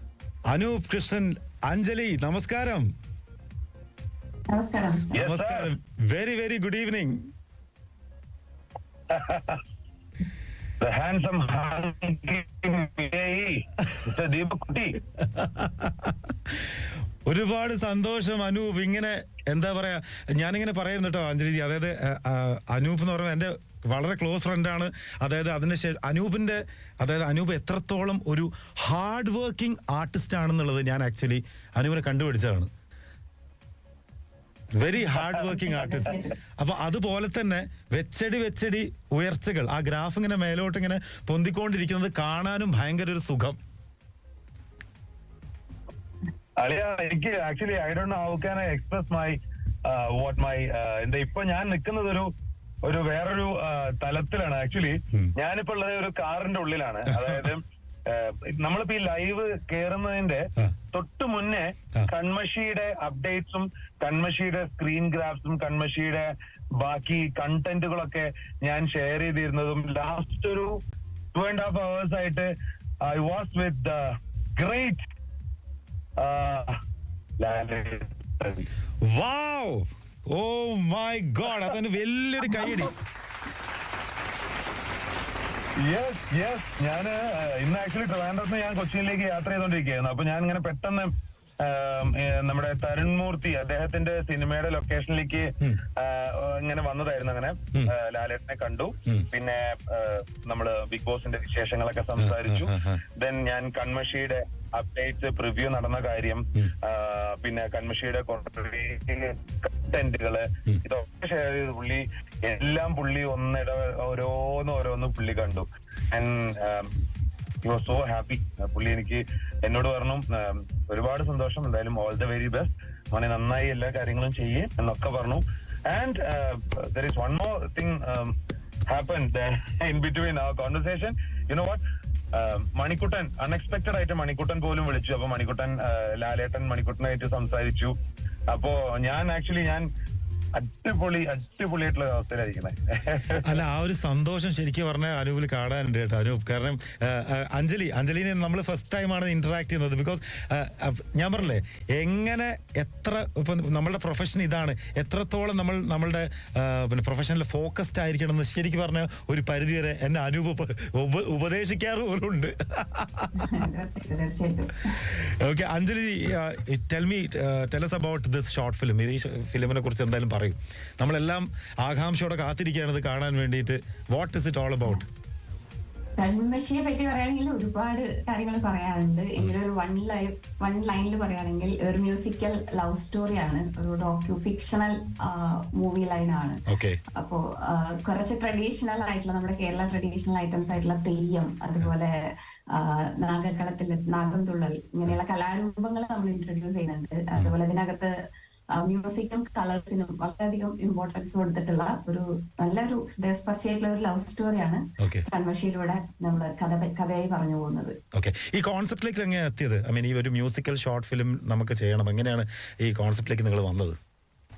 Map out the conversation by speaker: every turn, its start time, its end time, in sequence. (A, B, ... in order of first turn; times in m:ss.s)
0:00.5-0:02.9 A
0:04.5-0:05.3 B
0:05.1-0:07.2 A
0:05.2-0:05.7 C
0:09.1-0:09.6 C
0:10.8-0:15.0 C
0:15.1-0:32.7 A
0:34.8-0:43.6 A
0:34.9-0:36.3 B
0:46.6-0:52.3 C
0:52.8-1:10.7 C
0:57.1-0:57.5 A
1:11.3-1:12.5 C
1:13.0-1:14.0 C
1:14.6-1:15.0 C
1:16.2-1:16.7 C
1:17.4-1:18.6 C
1:19.0-1:22.9 A
1:25.8-1:56.9 C
1:42.2-1:43.0 A
1:57.6-2:08.3 C
2:08.9-2:11.8 C
2:12.3-2:17.9 C
2:18.5-2:19.8 C
2:20.5-2:23.6 C
2:23.4-2:43.4 A
2:43.4-2:45.0 B
2:45.0-2:55.0 A
2:56.2-3:06.6 B
3:06.7-3:07.0 A
3:07.2-3:12.1 B
3:12.7-3:18.1 B
3:18.8-3:28.0 B
3:25.0-3:25.2 A
3:28.1-3:34.0 A